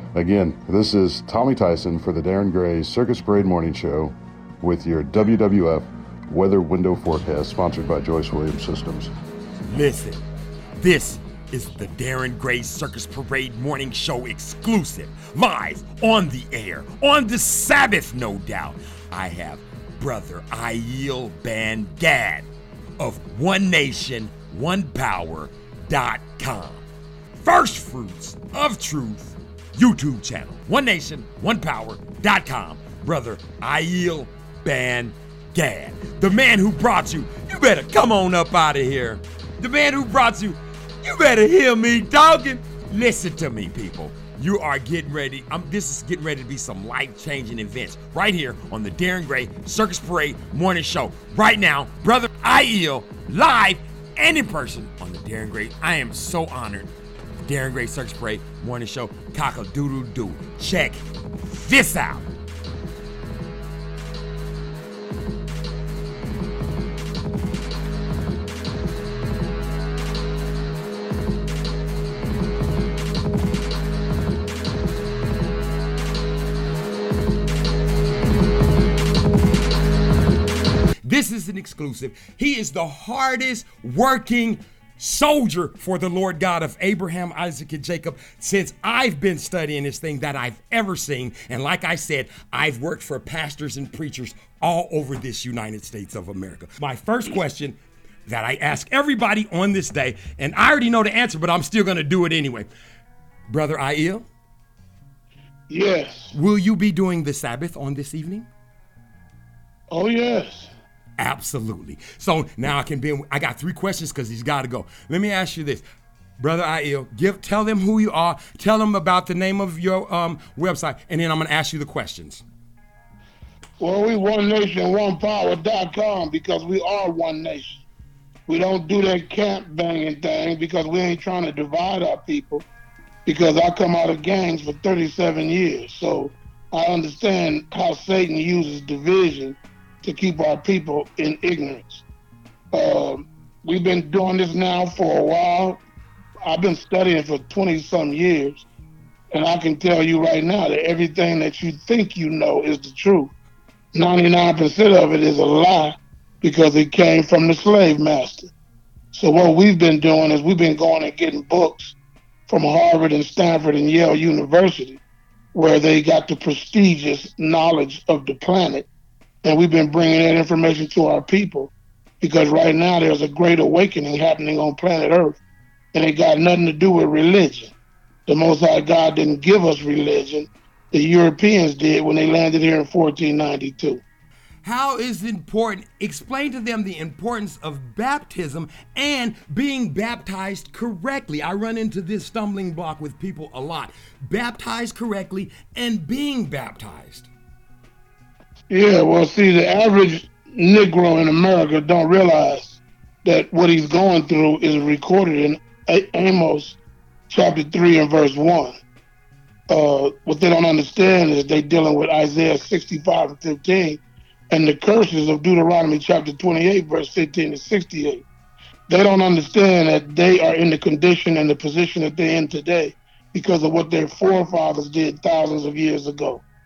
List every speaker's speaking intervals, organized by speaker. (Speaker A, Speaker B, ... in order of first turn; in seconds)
Speaker A: 0.1-9.1
Speaker B: 9.7-10.2, 10.8-22.5, 23.0-26.8, 27.4-62.3, 81.0-102.7, 103.5-104.2, 106.3-108.5, 111.2-115.8, 116.4-122.4, 184.6-197.3
Speaker C: 105.7-106.3, 109.9-110.7, 123.8-127.8, 128.5-132.6, 133.2-142.0, 142.7-145.8, 146.4-148.6, 149.3-153.3, 153.9-158.5, 159.1-161.9, 162.5-165.0, 165.5-168.9, 169.4-175.4, 175.9-177.7, 178.3-184.0, 198.7-206.8, 207.3-208.8, 209.7-218.2, 218.9-226.4